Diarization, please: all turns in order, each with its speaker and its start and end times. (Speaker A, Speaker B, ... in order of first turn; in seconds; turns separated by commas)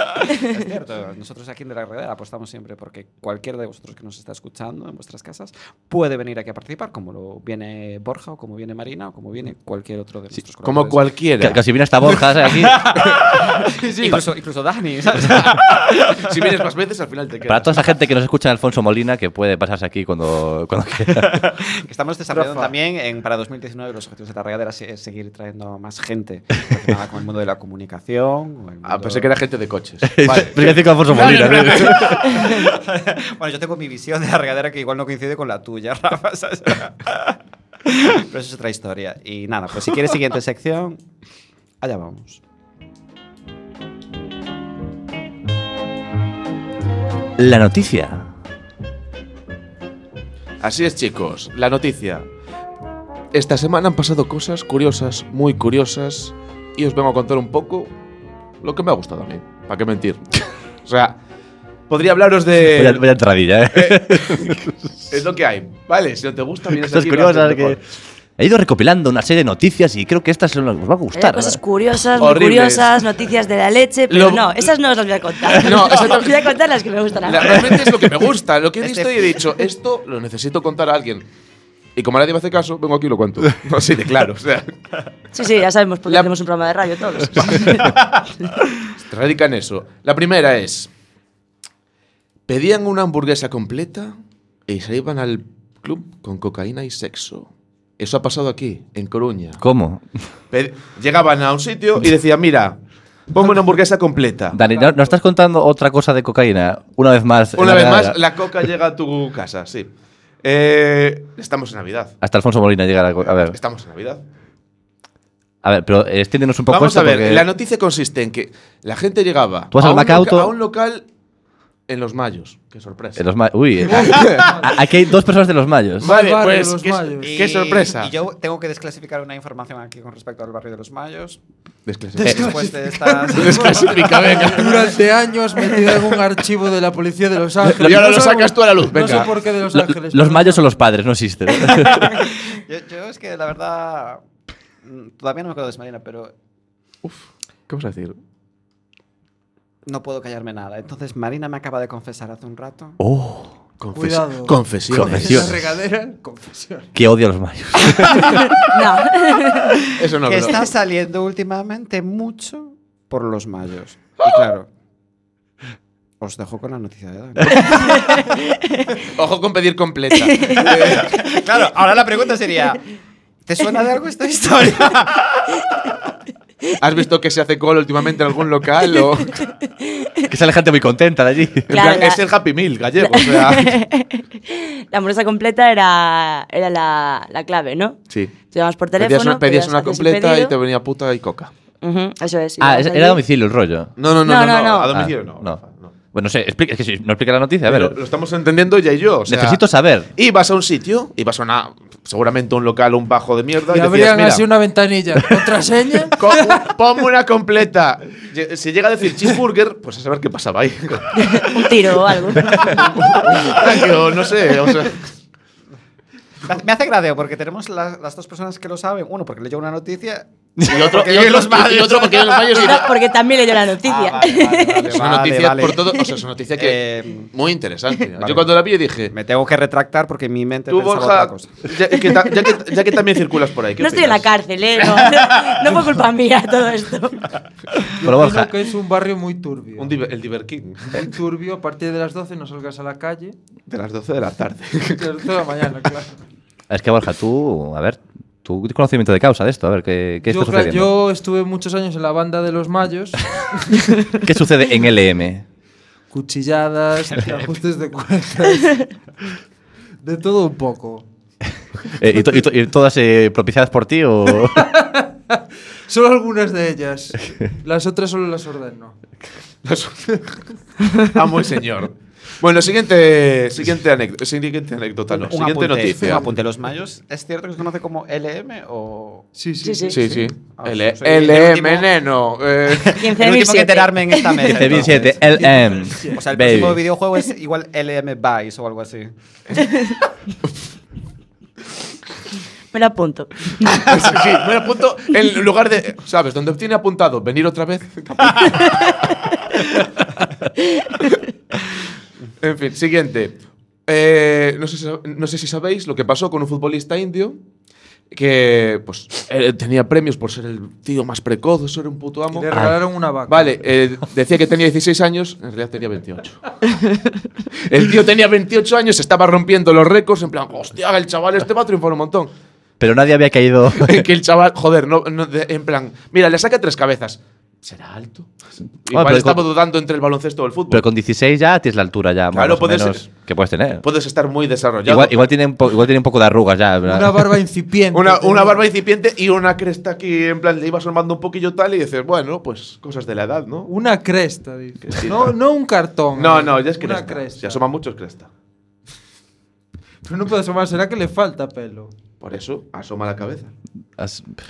Speaker A: 0.4-11.1, Speaker B: 10.6-11.6, Speaker C: 11.4-12.9, Speaker A: 12.3-16.5, Speaker B: 15.2-17.9, Speaker C: 17.5-21.5, Speaker A: 21.3-29.3, Speaker B: 22.3-22.7, Speaker B: 28.8-32.7, Speaker C: 30.1-32.4, Speaker A: 32.3-41.0, Speaker A: 41.8-42.4, Speaker C: 47.4-48.3, Speaker B: 50.6-52.2, Speaker B: 53.3-57.9, Speaker B: 58.6-61.1, Speaker B: 61.9-63.0, Speaker C: 62.7-64.8, Speaker B: 63.7-67.8, Speaker C: 66.7-67.8, Speaker C: 68.4-71.6, Speaker D: 71.1-78.2, Speaker B: 72.2-73.0, Speaker B: 74.1-74.7, Speaker B: 75.5-76.4, Speaker B: 77.2-81.2, Speaker A: 78.8-79.3, Speaker B: 82.0-84.7, Speaker D: 85.3-87.9, Speaker B: 87.3-88.0, Speaker B: 88.9-90.9, Speaker B: 92.5-94.1, Speaker B: 94.7-99.6, Speaker C: 99.6-100.0, Speaker B: 100.5-102.8, Speaker B: 103.3-104.6, Speaker C: 104.5-108.2, Speaker B: 107.5-109.9, Speaker B: 110.4-112.2, Speaker C: 112.2-113.5, Speaker B: 113.4-114.2, Speaker C: 115.6-117.5, Speaker B: 116.7-121.0, Speaker C: 119.7-120.5, Speaker B: 121.9-123.2, Speaker C: 123.2-126.1, Speaker B: 123.8-124.6, Speaker E: 123.9-124.8, Speaker E: 126.0-127.3, Speaker B: 126.0-128.1, Speaker A: 127.2-131.4, Speaker B: 131.8-132.7, Speaker E: 132.2-140.8, Speaker A: 132.2-133.9, Speaker B: 133.3-135.0, Speaker B: 137.7-139.3, Speaker C: 139.7-142.1, Speaker A: 142.1-144.2, Speaker A: 144.8-146.3, Speaker B: 147.0-148.2, Speaker A: 149.8-153.0, Speaker C: 153.0-153.5, Speaker B: 153.8-155.6, Speaker E: 153.9-156.9, Speaker C: 154.9-155.5, Speaker C: 156.9-158.5, Speaker D: 158.2-159.8, Speaker B: 159.9-160.7, Speaker A: 160.1-164.7, Speaker A: 166.2-168.3, Speaker D: 167.7-168.9, Speaker B: 169.1-171.2, Speaker D: 170.3-170.6, Speaker A: 170.7-172.8, Speaker A: 173.4-175.5, Speaker B: 176.8-179.4, Speaker D: 179.4-180.3, Speaker C: 180.3-181.7, Speaker B: 181.7-183.8, Speaker D: 181.7-182.2, Speaker D: 183.0-188.0, Speaker D: 188.5-190.5, Speaker B: 189.0-191.5, Speaker D: 191.8-193.2, Speaker C: 192.6-193.9, Speaker B: 194.0-195.9, Speaker D: 194.2-194.9, Speaker C: 194.9-195.6, Speaker C: 196.1-197.9, Speaker B: 197.7-199.6, Speaker C: 199.3-200.1, Speaker B: 200.2-204.5, Speaker E: 203.7-206.6, Speaker B: 206.2-215.1, Speaker D: 211.2-212.8, Speaker A: 216.4-222.7, Speaker B: 220.6-222.9, Speaker D: 222.5-225.0, Speaker A: 223.8-226.0, Speaker B: 224.9-226.8, Speaker A: 226.5-227.3, Speaker B: 227.3-229.1, Speaker A: 228.2-231.7, Speaker B: 230.7-234.3, Speaker D: 233.8-237.3, Speaker E: 237.9-240.0, Speaker C: 238.0-238.5, Speaker B: 239.8-241.1, Speaker E: 240.9-243.3, Speaker B: 243.7-245.1, Speaker E: 244.9-246.2, Speaker C: 246.7-250.9, Speaker E: 250.2-253.8, Speaker C: 254.1-255.4, Speaker E: 256.1-258.9, Speaker A: 257.1-257.5, Speaker E: 260.0-261.1, Speaker C: 262.0-264.7, Speaker E: 264.4-269.0, Speaker B: 269.6-270.4, Speaker B: 270.9-276.3, Speaker A: 275.1-279.3, Speaker E: 279.4-280.2, Speaker D: 279.6-280.0, Speaker B: 279.9-283.0, Speaker A: 280.5-281.9, Speaker A: 282.6-289.1, Speaker D: 283.0-284.5, Speaker C: 284.4-286.8, Speaker E: 285.2-286.2, Speaker D: 292.7-293.9, Speaker B: 293.6-299.8, Speaker D: 298.5-299.3, Speaker D: 300.6-301.1, Speaker B: 302.4-307.4, Speaker B: 308.1-312.6, Speaker E: 312.3-313.7, Speaker B: 313.3-316.4, Speaker B: 317.6-322.3, Speaker C: 322.8-324.1, Speaker B: 323.8-328.3, Speaker B: 328.9-330.8, Speaker C: 328.9-329.5, Speaker C: 330.7-333.8, Speaker B: 332.3-333.1, Speaker B: 333.8-335.3, Speaker C: 334.8-337.4, Speaker E: 336.8-338.6, Speaker B: 337.9-343.7, Speaker E: 343.7-347.6, Speaker B: 344.8-345.4, Speaker B: 346.1-348.3, Speaker E: 350.0-351.9, Speaker B: 352.2-353.5, Speaker C: 354.0-354.3